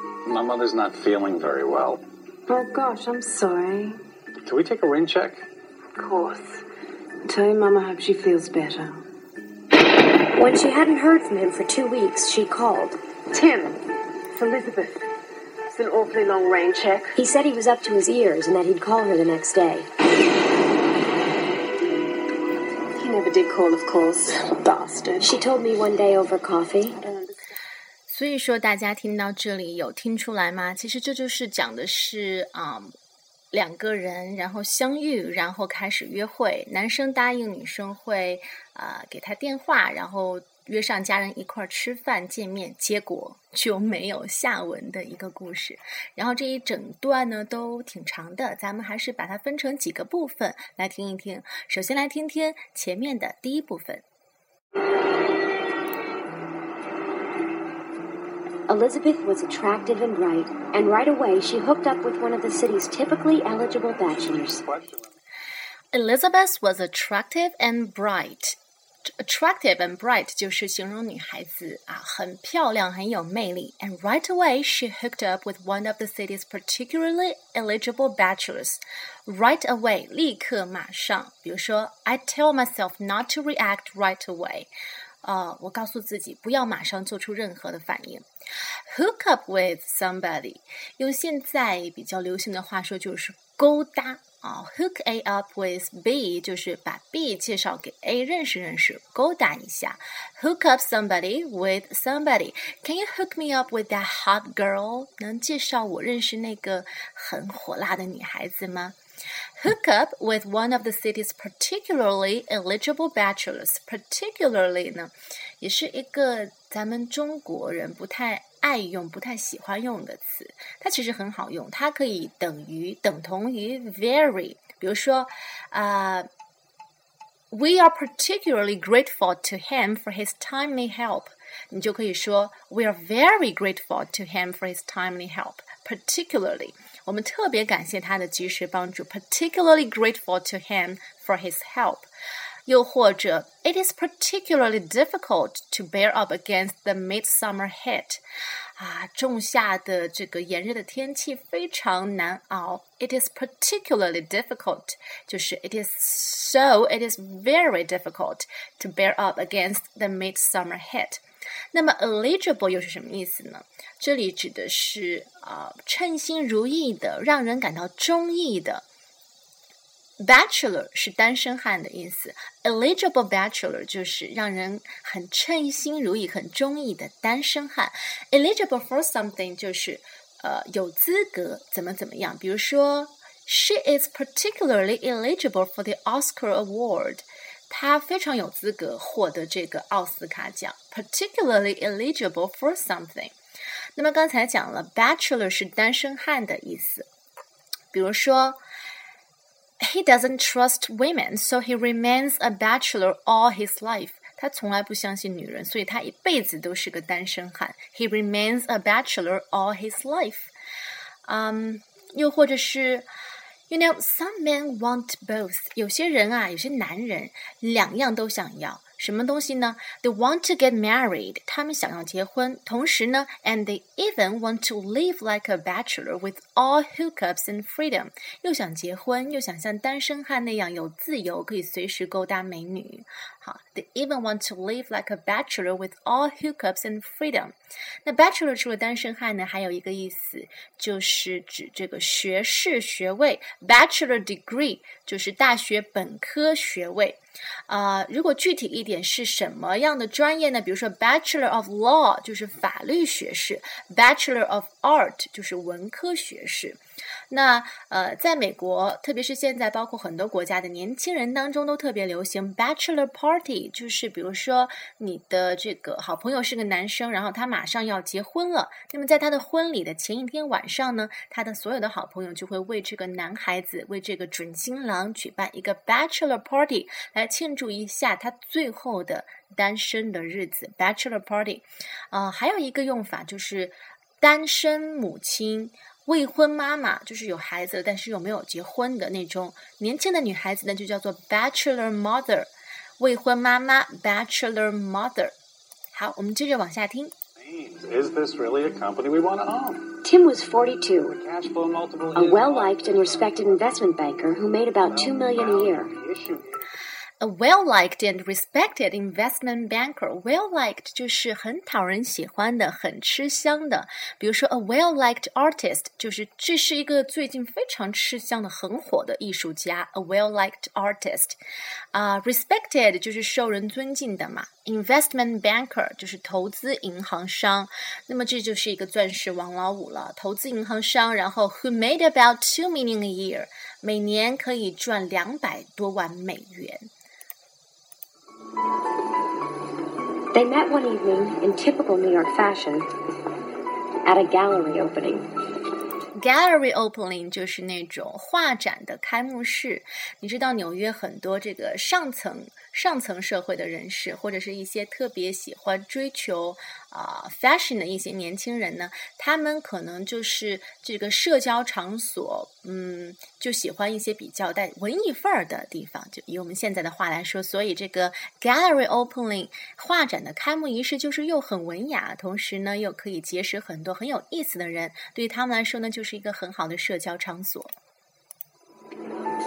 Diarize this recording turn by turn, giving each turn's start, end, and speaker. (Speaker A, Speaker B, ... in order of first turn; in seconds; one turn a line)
Speaker A: 0.2-2.0
Speaker B: 2.5-4.0
Speaker A: 4.4-5.4
Speaker B: 6.0-6.6
Speaker B: 7.2-9.0
Speaker C: 10.3-13.0
Speaker B: 13.3-15.0
Speaker B: 15.7-17.1
Speaker C: 17.1-19.9
Speaker B: 22.9-25.3
Speaker C: 25.2-26.9
Speaker B: 27.0-27.3
Speaker D: 28.1-32.9
Speaker D: 33.5-54.0
Speaker C: 58.7-64.6
Speaker A: 64.4-65.1
Speaker D: 65.9-84.7
Speaker D: 85.2-88.2
Speaker D: 88.9-109.0
Speaker D: 109.6-126.3
Speaker D: 127.5-142.1
Speaker D: 142.7-148.2
Speaker D: 148.8-161.2
Speaker D: 161.7-168.8
Speaker D: 170.2-193.3
Speaker D: 193.9-197.1
Speaker D: 197.9-198.6
Speaker D: 199.8-210.5
Speaker D: 211.2-213.1
Speaker D: 213.7-256.8
Speaker D: 257.3-295.3
Speaker D: 295.9-297.1
Speaker A: 297.4-299.9
Speaker C: 300.0-301.1
Speaker A: 301.1-303.8
Speaker C: 302.1-305.9
Speaker A: 304.9-306.6
Speaker D: 307.2-321.4
Speaker D: 321.9-336.9
Speaker C: 340.3-342.9
Speaker C: 344.1-345.3
Speaker D: 346.1-377.7